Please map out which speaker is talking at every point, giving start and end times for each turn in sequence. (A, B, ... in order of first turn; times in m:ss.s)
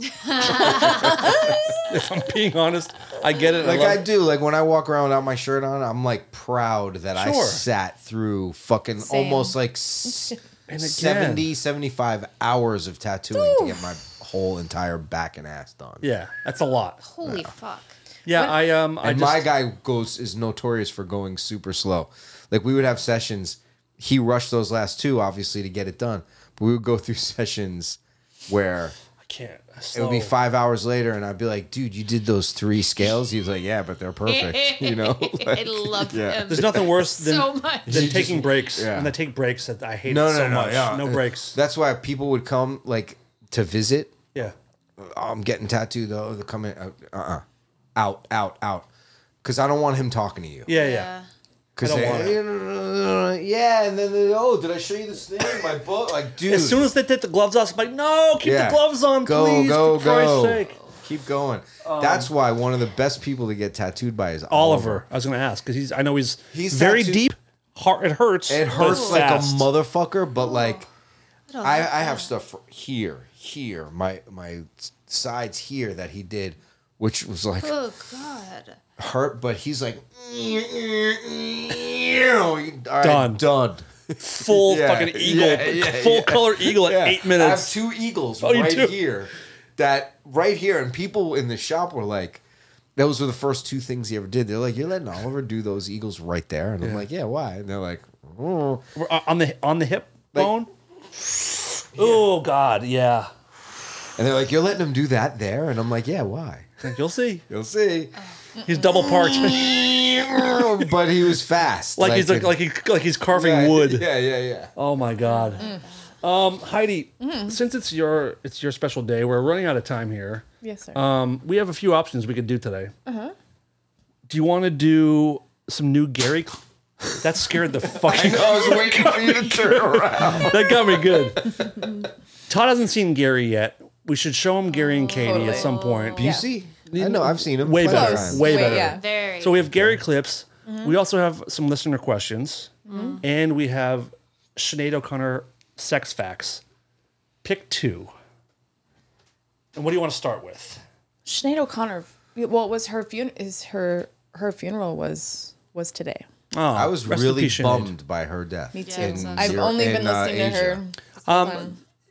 0:00.2-0:01.5 A
0:00.5-0:01.1 B
0:00.8-0:01.6 C
0:01.9-0:04.1 B
0:03.6-0:16.1 C
0:07.2-0:07.6 B
0:09.0-0:09.6 D
0:10.7-0:11.5 B
0:13.3-0:13.9 D
0:16.0-0:17.0 B
0:17.0-0:18.0 A
0:17.2-0:17.5 C
0:18.3-0:19.5 B
0:19.0-0:29.0 C
0:29.3-0:30.3 B
0:29.9-0:37.0 C
0:34.3-0:38.6 A
0:36.5-0:41.6 B
0:37.9-0:39.2 C
0:40.0-0:44.2 C
0:45.0-0:47.4 C
0:48.0-0:48.9 C
0:49.4-0:50.7 C
0:50.7-0:51.1 B
0:50.7-0:51.3 A
0:51.8-0:56.9 C
0:51.8-0:52.4 B
0:56.5-1:00.8 B
0:58.4-1:05.0 C
1:01.8-1:02.3 B
1:04.5-1:09.7 B
1:06.5-1:07.2 C
1:08.5-1:10.9 C
1:08.7-1:09.2 A
1:10.4-1:10.8 A
1:11.5-1:12.3 A
1:11.6-1:17.8 C
1:17.6-1:18.8 A
1:19.0-1:32.4 C
1:23.0-1:23.4 B
1:24.2-1:27.8 B
1:28.4-1:29.0 B
1:33.0-1:38.8 C
1:39.0-1:43.3 B
1:42.0-1:42.3 C
1:44.2-1:46.7 C
1:46.8-1:47.4 B
1:47.5-1:48.2 C
1:48.2-1:48.4 A
1:48.6-1:49.8 B
1:48.9-1:52.6 C
1:52.0-1:54.1 B
1:53.3-1:54.7 C
1:54.8-1:55.6 B
1:55.2-1:56.0 A
1:56.2-2:02.9 B
1:57.2-1:57.6 D
2:00.6-2:01.0 D
2:03.1-2:03.3 D
2:04.3-2:06.6 B
2:07.2-2:11.7 B
2:08.0-2:11.9 C
2:12.5-2:16.3 B
2:14.7-2:16.3 A
2:15.2-2:16.5 D
2:16.2-2:18.9 C
2:16.9-2:26.6 B
2:17.8-2:19.0 D
2:18.4-2:19.6 A
2:19.6-2:20.0 C
2:20.7-2:21.0 D
2:22.9-2:23.2 D
2:22.9-2:23.2 A
2:27.4-2:28.1 B
2:29.8-2:30.8 B
2:31.2-2:36.3 D
2:36.5-2:37.9 B
2:36.7-2:40.8 C
2:38.7-2:41.8 D
2:38.8-2:39.7 A
2:41.3-2:41.7 B
2:41.3-2:41.6 A